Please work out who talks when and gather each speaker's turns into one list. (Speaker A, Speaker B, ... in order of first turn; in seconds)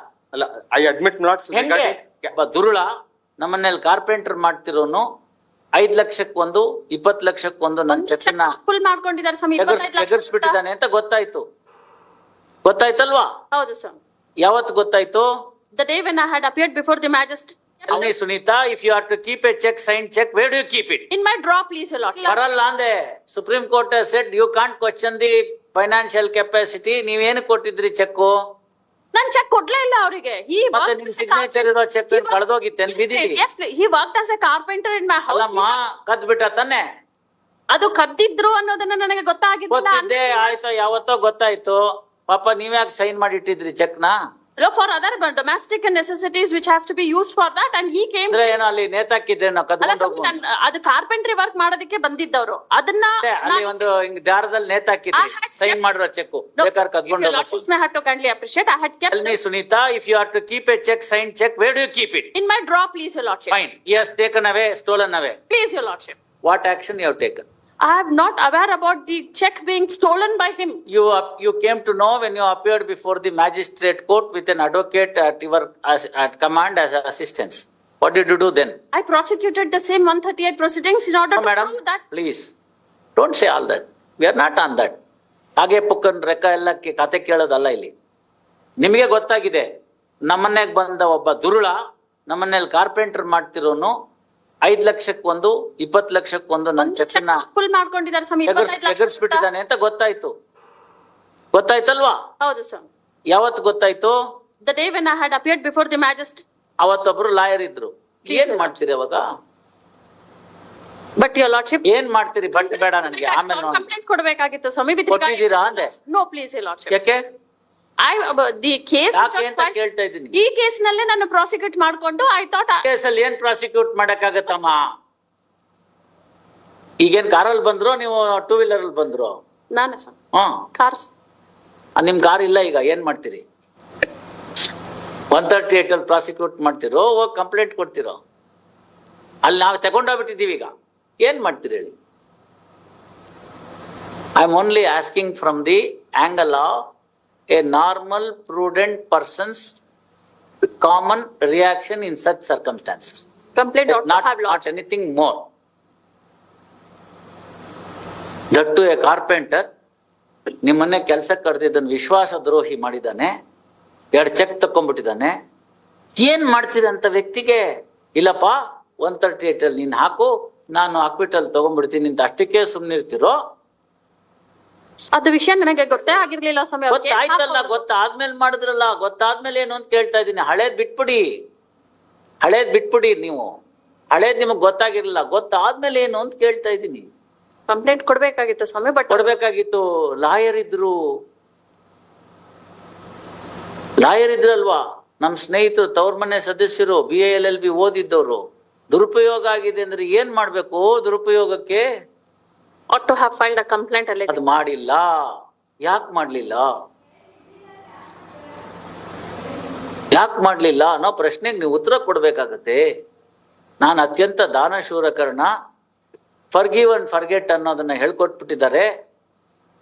Speaker A: 0.3-2.3
Speaker B: 1.5-2.9, 3.4-5.0, 5.8-8.6, 9.6-11.4, 12.6-13.3, 14.4-15.3, 17.9-21.1, 22.2-28.3, 30.7-33.4, 35.3-36.8, 39.7-44.1, 48.3-50.4, 53.2-57.7, 59.1-62.3, 63.5-65.4, 66.4-67.5, 70.9-78.8, 81.3-82.5, 83.2-85.0, 85.6-87.9, 88.8-89.7, 90.3-93.9, 94.7-97.4, 98.5-100.3, 101.5-102.2, 103.3-104.1, 106.8-109.2, 111.8-113.9, 115.1-115.9, 116.9-117.2, 119.1-120.4, 122.8-124.8, 127.0-129.4, 130.3-130.7, 132.0-133.4, 135.3-138.2, 139.4-140.7, 141.2-141.9, 144.3-146.8, 147.5-149.8, 150.8-153.2, 153.9-155.4, 158.5-159.7, 160.6-163.3, 164.1-165.3, 166.2-167.6, 168.2-173.3, 176.9-181.2, 182.4-183.5, 184.1-187.1, 189.1-190.9, 194.0-201.8, 204.3-205.1, 205.8-206.7, 210.1-212.8, 213.8-215.5, 216.5-218.9
Speaker C: 7.9-10.6, 13.5-14.0, 15.7-18.1, 21.1-22.4, 29.1-35.8, 37.7-40.6, 44.6-48.4, 49.8-53.8, 55.1-55.8, 56.6-59.4, 62.3-63.6, 65.5-66.2, 67.8-70.8, 78.9-82.0, 96.8-99.5, 102.4-102.9, 104.6-106.4, 108.3-108.7, 111.2-111.8, 112.5-117.0, 118.0-119.8, 120.3-122.8, 129.7-130.1, 130.7-131.1, 153.5-154.6, 175.1-177.8, 187.7-189.3, 202.9-204.4